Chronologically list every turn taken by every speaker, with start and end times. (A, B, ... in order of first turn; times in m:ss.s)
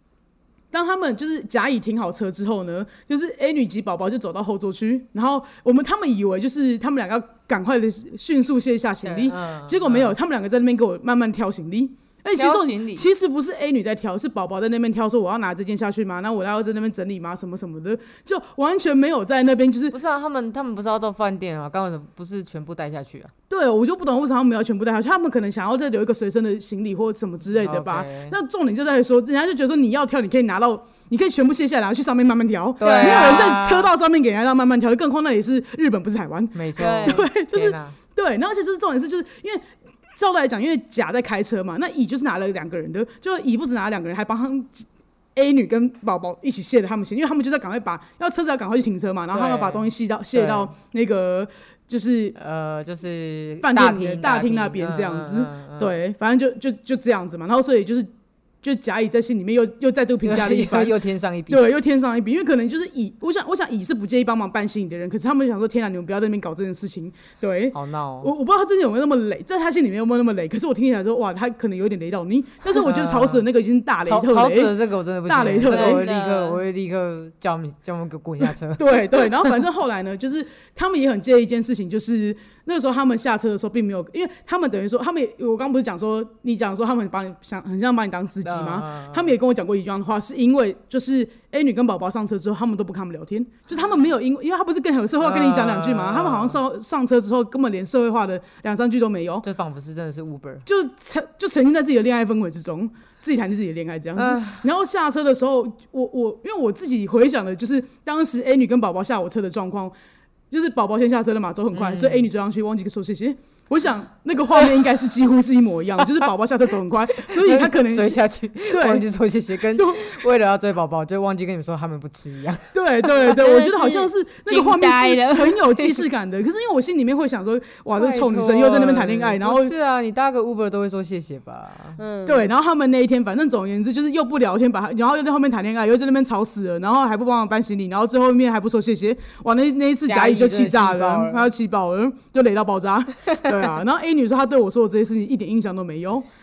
0:00.7-0:20.0 A
0:09.0-0:10.1 B
0:12.3-0:13.0 B
0:19.9-0:23.3 B
0:23.5-0:39.6 A
0:27.5-0:28.4 B
0:32.8-0:33.9 B
0:32.8-0:33.6 C
0:36.5-0:38.0 B
0:36.8-0:37.3 C
0:40.2-0:52.4 A
0:49.3-0:50.7 B
0:52.3-0:55.9 B
0:53.6-0:58.1 A
0:58.6-1:00.9 A
1:00.2-1:01.7 B
1:01.5-1:14.7 A
1:07.7-1:08.3 B
1:12.7-1:13.4 B
1:14.0-1:19.6 B
1:15.2-1:16.0 A
1:15.7-1:16.6 C
1:18.8-1:39.4 A
1:28.4-1:29.4 B
1:35.2-1:36.6 B
1:39.4-1:40.6 B
1:40.6-1:49.9 A
1:44.2-1:44.6 B
1:50.5-1:59.1 A
1:51.7-1:52.3 B
1:54.5-1:54.8 B
1:57.2-2:02.7 B
1:59.7-2:00.2 A
2:02.7-2:09.7 A
2:03.1-2:05.9 C
2:07.9-2:12.0 B
2:12.0-2:12.5 C
2:12.2-2:26.2 A
2:20.0-2:21.5 B